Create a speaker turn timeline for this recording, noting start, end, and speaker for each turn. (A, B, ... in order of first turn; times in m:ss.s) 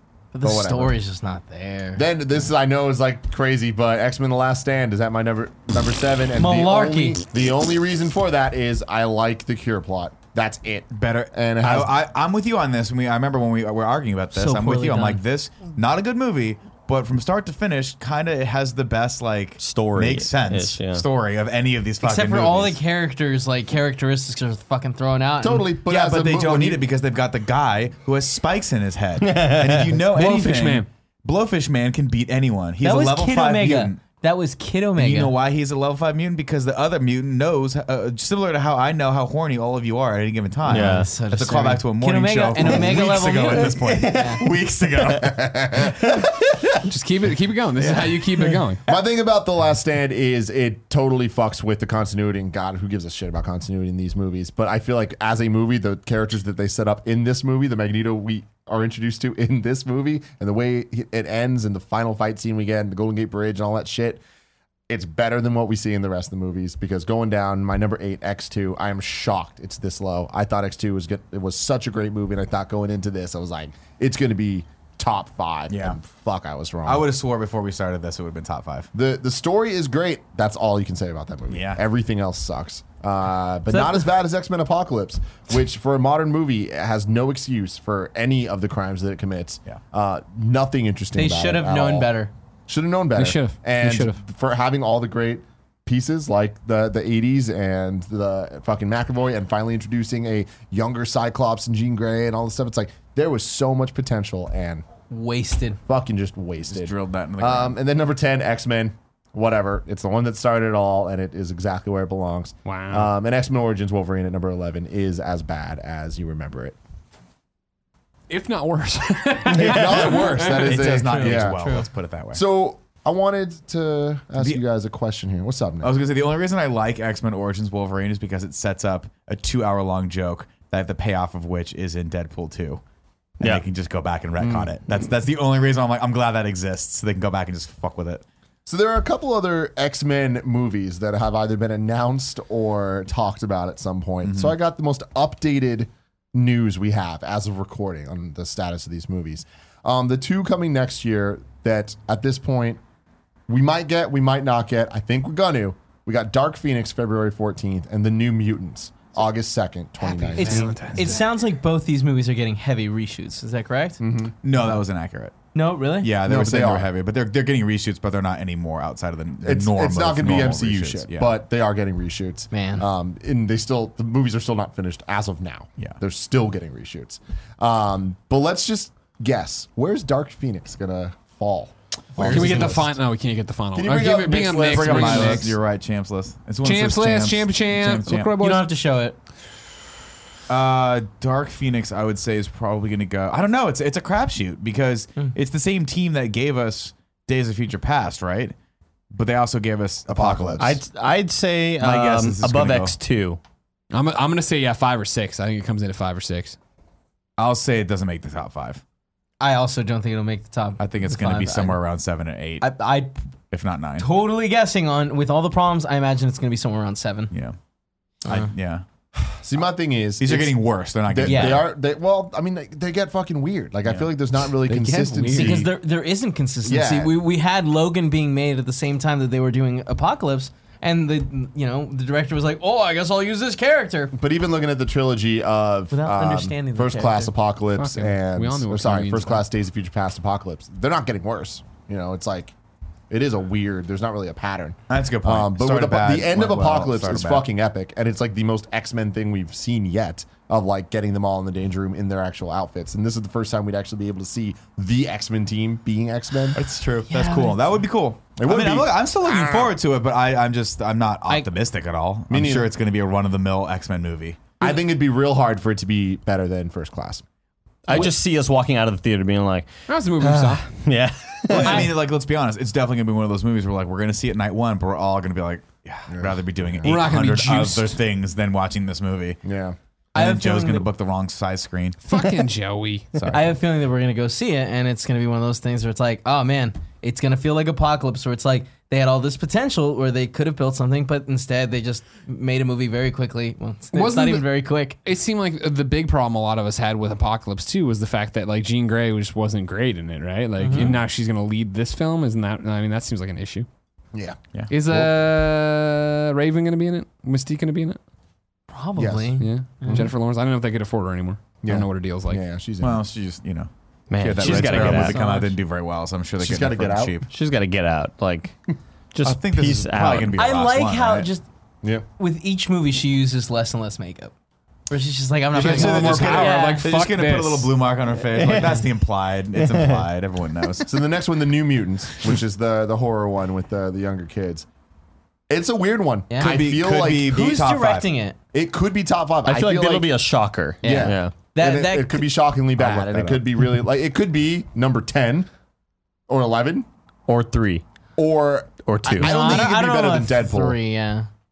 0:00.3-0:02.1 A
0:00.4-0:01.0 B
0:02.0-0:12.0 B
0:06.4-0:07.2 A
0:10.9-0:22.8 C
0:14.3-0:15.2 A
0:19.6-0:21.0 D
0:22.0-0:25.7 A
0:25.4-0:26.8 B
0:25.9-0:34.0 C
0:29.2-0:30.0 D
0:30.1-0:30.9 E
0:32.8-0:35.3 A
0:35.0-0:45.3 C
0:40.6-0:41.1 D
0:40.7-0:44.4 A
0:42.6-0:43.0 D
0:43.6-0:44.6 D
0:45.0-0:46.6 B
0:46.0-0:46.3 D
0:46.8-0:48.8 E
0:48.9-1:04.2 B
1:04.9-1:17.1 B
1:15.7-1:16.0 C
1:16.9-1:18.9 C
1:18.9-1:32.1 B
1:21.5-1:21.8 C
1:23.7-1:24.1 A
1:31.1-1:32.3 A
1:32.7-1:44.8 B
1:33.2-1:34.2 E
1:45.1-1:45.8 A
1:45.9-1:56.8 B
1:46.7-1:47.8 C
1:52.7-1:53.1 E
1:58.3-2:00.7 E
1:59.5-2:01.6 B
2:00.4-2:02.4 C
2:00.6-2:01.9 A
2:02.3-2:06.0 B
2:05.8-2:12.8 C
2:13.4-2:18.2 C
2:14.4-2:14.8 B
2:18.7-2:32.8 B
2:24.2-2:24.6 C
2:33.5-2:40.8 B
2:40.3-2:41.2 E
2:40.3-2:44.0 A
2:44.0-2:44.4 B
2:44.4-2:45.4 C
2:45.5-2:46.1 A
2:46.0-2:51.3 C
2:46.2-2:46.9 B
2:49.4-3:02.9 B
2:52.5-2:52.8 A
3:02.2-3:02.8 A
3:02.2-3:05.6 E
3:03.8-3:05.6 B
3:04.6-3:08.4 C
3:06.6-3:08.7 E
3:08.4-3:09.2 A
3:10.5-3:18.5 C
3:19.1-3:20.8 C
3:20.1-3:20.7 B
3:20.6-3:23.4 D
3:21.8-3:23.0 C
3:23.9-3:26.6 E
3:27.4-3:28.8 C
3:29.4-3:31.8 A
3:30.8-3:32.7 C
3:32.6-3:33.2 A
3:33.5-3:34.1 C
3:34.0-3:37.3 A
3:37.3-3:37.6 C
3:38.2-3:38.5 A
3:38.2-3:38.8 C
3:39.4-3:45.7 B
3:40.2-3:41.7 C
3:41.2-3:41.6 A
3:44.7-3:45.7 E
3:45.3-3:54.1 A
3:46.6-3:47.2 B
3:54.1-4:02.5 B
3:55.9-3:57.3 A
3:57.8-3:59.4 E
4:03.1-4:16.6 B
4:04.9-4:07.4 C
4:16.5-4:24.5 C
4:17.1-4:17.8 A
4:18.4-4:19.7 B
4:22.3-4:22.7 B
4:24.6-4:27.2 B
4:27.8-4:29.7 D
4:29.9-4:30.7 E
4:30.2-4:31.9 D
4:31.5-4:39.4 C
4:36.1-4:37.0 B
4:36.8-4:38.0 E
4:39.4-4:39.8 B
4:40.2-4:40.9 A
4:40.2-4:42.0 C
4:42.0-4:43.3 E
4:43.2-4:43.6 C
4:43.3-4:55.0 A
4:53.9-4:54.5 E
4:55.0-5:03.7 E
5:00.6-5:01.0 A
5:04.1-5:05.1 B
5:04.7-5:08.0 E
5:08.7-5:10.1 A
5:09.0-5:10.1 B
5:09.4-5:12.4 E
5:11.6-5:13.0 B
5:12.8-5:17.3 C
5:14.1-5:15.2 D
5:14.4-5:15.6 A
5:16.4-5:17.2 B
5:17.3-5:18.6 D
5:19.1-5:20.4 D
5:19.2-5:21.3 C
5:20.3-5:21.4 A
5:22.2-5:24.3 A
5:24.9-5:26.9 A
5:25.5-5:30.9 C
5:25.5-5:27.7 E
5:28.3-5:28.9 D
5:29.6-5:30.0 D
5:30.9-5:34.7 B
5:35.5-5:37.3 B
5:36.3-5:36.6 A
5:36.4-5:38.1 C
5:37.2-5:38.4 A
5:38.5-5:40.1 B
5:39.4-5:41.3 D
5:40.8-5:42.2 A
5:40.8-5:45.5 B
5:42.8-5:43.4 C
5:46.3-5:46.9 B
5:47.3-5:47.8 D
5:48.2-5:50.8 B
5:48.9-5:49.6 D
5:49.2-5:51.3 A